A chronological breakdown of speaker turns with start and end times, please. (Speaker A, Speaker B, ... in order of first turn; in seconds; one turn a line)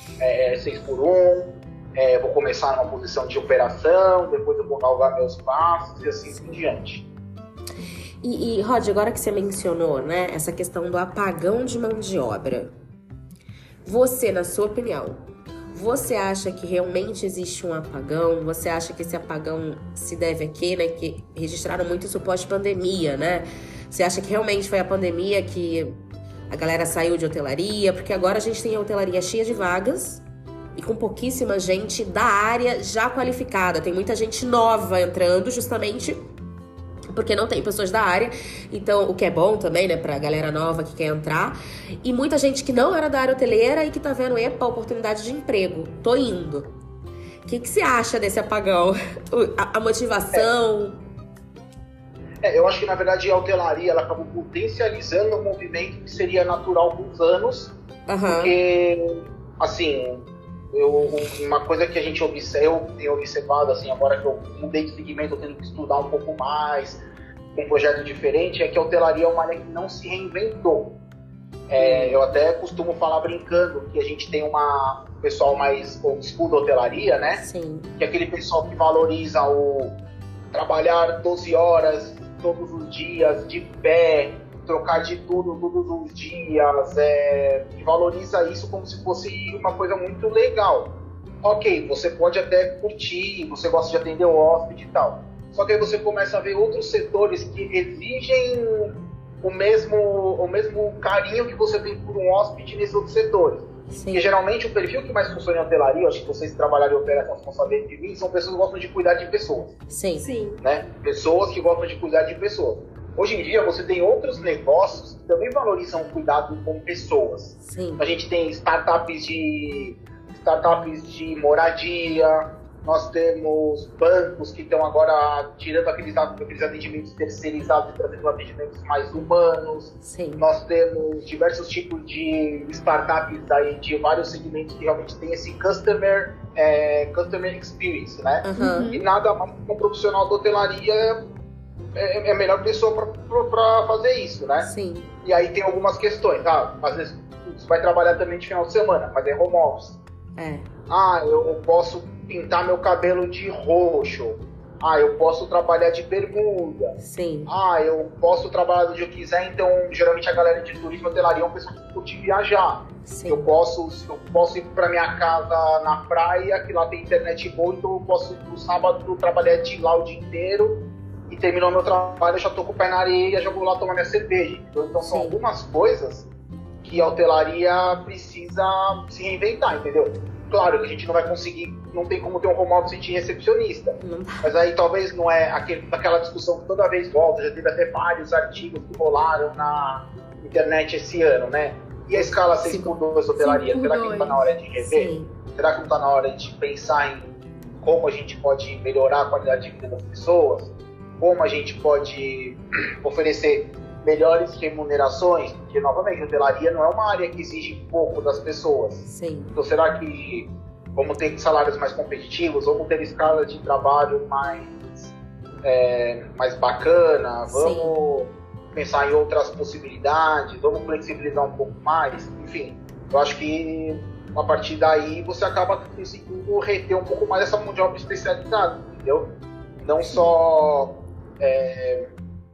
Speaker A: 0.2-7.1
Speaker B: 8.2-12.7
Speaker B: 13.8-26.0
Speaker B: 26.5-30.2
Speaker B: 30.8-36.2
Speaker B: 37.1-46.7
Speaker B: 47.5-51.0
Speaker A: 52.4-57.8
Speaker B: 58.1-58.5
Speaker A: 58.3-67.0
Speaker A: 67.5-70.9
Speaker A: 71.7-77.4
Speaker B: 71.8-72.2
Speaker B: 77.3-77.9
Speaker A: 78.0-80.0
Speaker A: 80.5-109.8
Speaker B: 103.9-104.3
Speaker B: 109.9-110.3
Speaker C: 110.2-110.6
Speaker A: 110.6-141.2
Speaker B: 117.6-118.0
Speaker B: 130.0-130.4
Speaker B: 138.4-138.9
Speaker C: 138.6-139.1
Speaker A: 141.9-144.7
Speaker B: 144.6-145.1
Speaker A: 145.2-150.0
Speaker B: 150.4-150.7
Speaker A: 150.9-156.9
Speaker B: 157.0-157.5
Speaker A: 157.5-176.3
Speaker B: 163.1-163.5
Speaker B: 175.0-175.4
Speaker A: 176.8-229.3
Speaker B: 184.0-184.5
Speaker B: 192.2-193.0
Speaker C: 193.4-194.5
Speaker B: 194.8-195.3
Speaker B: 209.1-209.5
Speaker B: 217.5-218.0
Speaker A: 229.8-232.1